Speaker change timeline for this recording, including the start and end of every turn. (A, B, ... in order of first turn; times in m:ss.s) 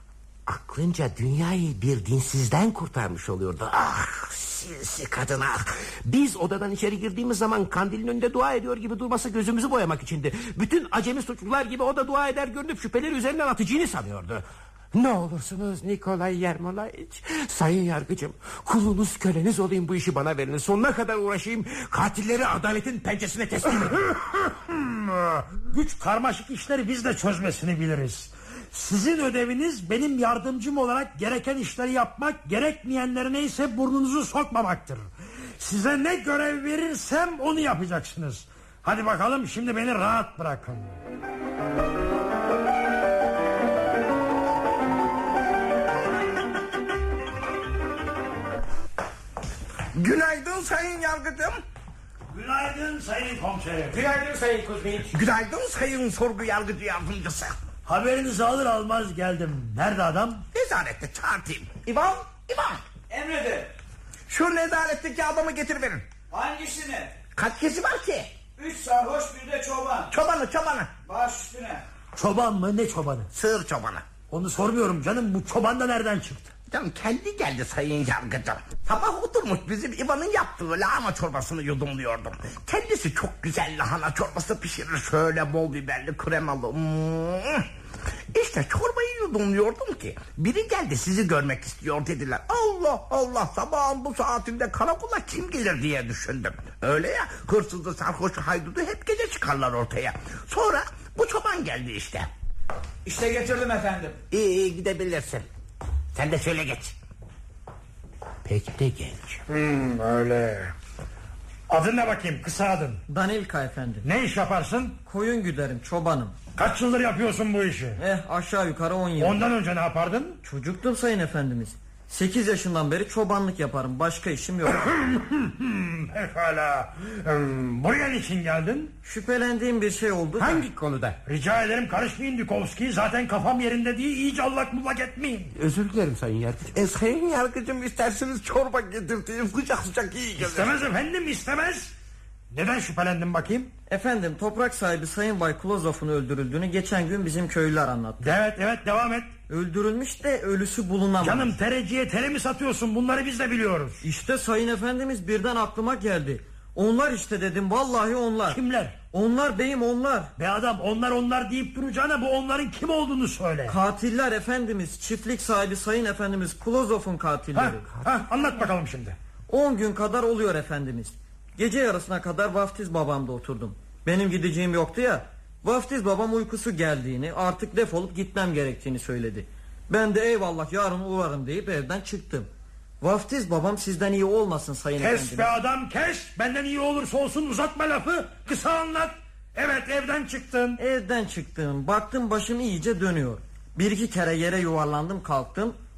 0:00.5-0:24.1 A
0:24.2-0:41.0 B
0:50.0-0:51.6 C
0:52.3-0:54.0 B
0:53.9-0:55.1 A
0:55.1-0:57.6 C
0:57.9-1:00.4 B
1:00.5-1:02.8 C
1:03.1-1:03.7 D
1:04.3-1:06.1 C
1:06.3-1:07.2 D
1:07.4-1:08.3 C
1:08.6-1:10.1 D
1:10.1-1:10.9 C
1:11.0-1:11.8 D
1:12.2-1:13.3 B
1:13.3-1:14.1 C
1:14.3-1:16.5 B
1:16.7-1:27.7 C
1:28.3-1:42.3 C
1:43.0-1:44.2 D
1:44.3-1:45.5 C
1:46.2-1:47.0 C
1:48.5-1:49.4 C
1:49.5-1:50.7 B
1:51.7-1:53.0 B
1:53.1-1:54.1 E
1:54.0-1:55.0 B
1:55.1-1:56.3 E
1:56.6-1:58.0 B
1:58.0-1:59.5 E
1:59.2-2:00.4 B
2:00.4-2:05.0 E
2:04.8-2:08.9 B
2:09.0-2:10.7 E
2:10.4-2:11.2 A
2:11.3-2:15.5 B
2:15.6-2:16.8 A
2:16.7-2:20.8 C
2:20.4-2:21.9 B
2:22.5-2:23.7 B
2:23.9-2:28.3 E
2:28.2-2:29.4 B
2:29.5-2:31.5 E
2:31.2-2:34.0 B
2:34.0-2:38.6 E
2:38.5-2:39.0 B
2:39.1-2:40.3 E
2:40.4-2:43.8 B
2:43.7-2:47.9 E
2:47.6-2:49.2 B
2:49.5-3:02.5 E
3:03.0-3:05.6 E
3:05.0-3:10.8 B
3:10.8-3:15.8 E